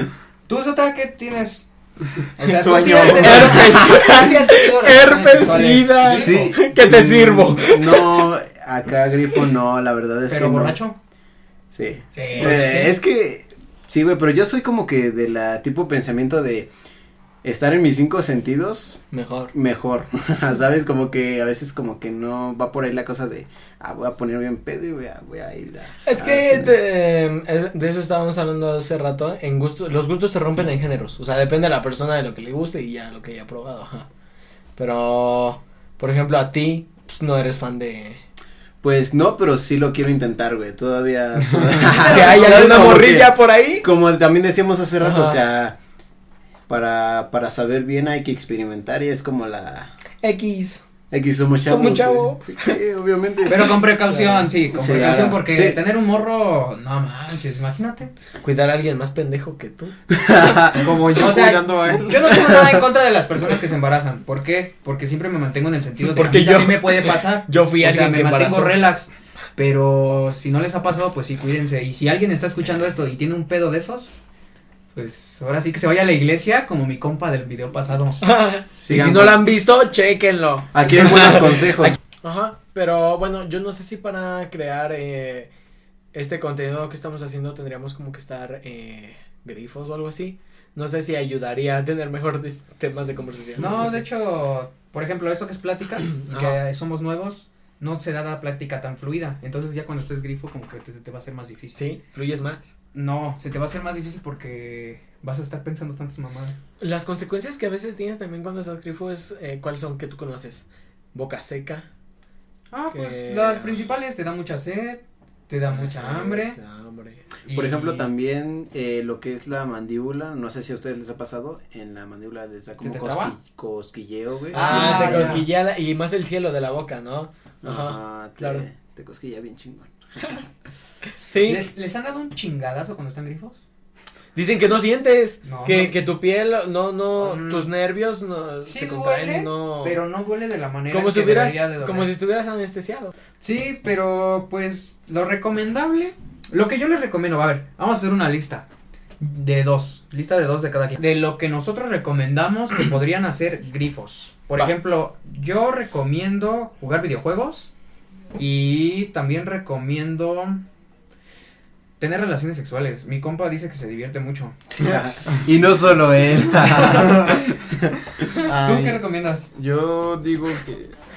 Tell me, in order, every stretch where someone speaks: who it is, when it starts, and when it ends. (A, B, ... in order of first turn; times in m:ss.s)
0:00.5-0:01.7 A
0:02.4-0:06.4 A
0:02.5-0:03.8 B
0:02.6-0:03.6 C
0:03.1-0:08.3 D
0:06.1-0:10.8 C
0:10.3-0:11.0 A
0:11.7-0:16.7 C
0:12.1-0:12.9 A
0:17.4-0:19.0 C
0:19.1-0:19.5 D
0:19.5-0:26.7 C
0:26.0-0:34.1 D
0:34.8-0:38.2 D
0:38.8-0:45.8 C
0:41.9-0:43.9 D
0:45.0-0:45.4 D
0:46.7-0:49.9 C
0:50.2-0:50.8 D
0:51.1-0:53.8 C
0:51.6-0:52.8 D
0:53.4-0:58.1 A
0:54.1-0:55.4 D
0:54.7-0:55.8 C
0:58.4-1:00.2 D
1:00.1-1:01.0 C
1:00.8-1:14.2 A
1:01.1-1:02.3 B
1:06.0-1:08.8 D
1:15.0-1:18.3 A
1:18.2-1:25.5 D
1:18.7-1:19.5 C
1:20.7-1:22.0 C
1:26.1-1:34.0 D
1:33.6-1:41.9 A
1:36.2-1:36.6 D
1:41.8-1:42.7 D
1:42.9-1:46.6 A
1:46.8-1:51.9 D
1:52.7-1:56.6 A
1:52.9-1:53.8 D
1:55.7-1:57.2 D
1:57.4-1:58.1 A
1:57.5-2:05.5 C
2:02.8-2:03.4 A
2:04.5-2:05.4 A
2:04.5-2:08.6 D
2:07.6-2:10.4 C
2:11.2-2:11.7 D
2:11.4-2:13.6 A
2:14.3-2:20.0 D
2:15.4-2:16.0 A
2:17.2-2:17.6 A
2:18.6-2:22.1 A
2:20.9-2:23.1 D
2:23.4-2:28.7 A
2:29.2-2:37.7 A
2:38.3-2:40.6 A
2:42.0-2:45.4 A
2:44.8-2:47.9 C
2:46.6-2:47.2 A
2:46.8-2:47.4 B
2:48.2-2:50.9 B
2:48.4-2:49.5 A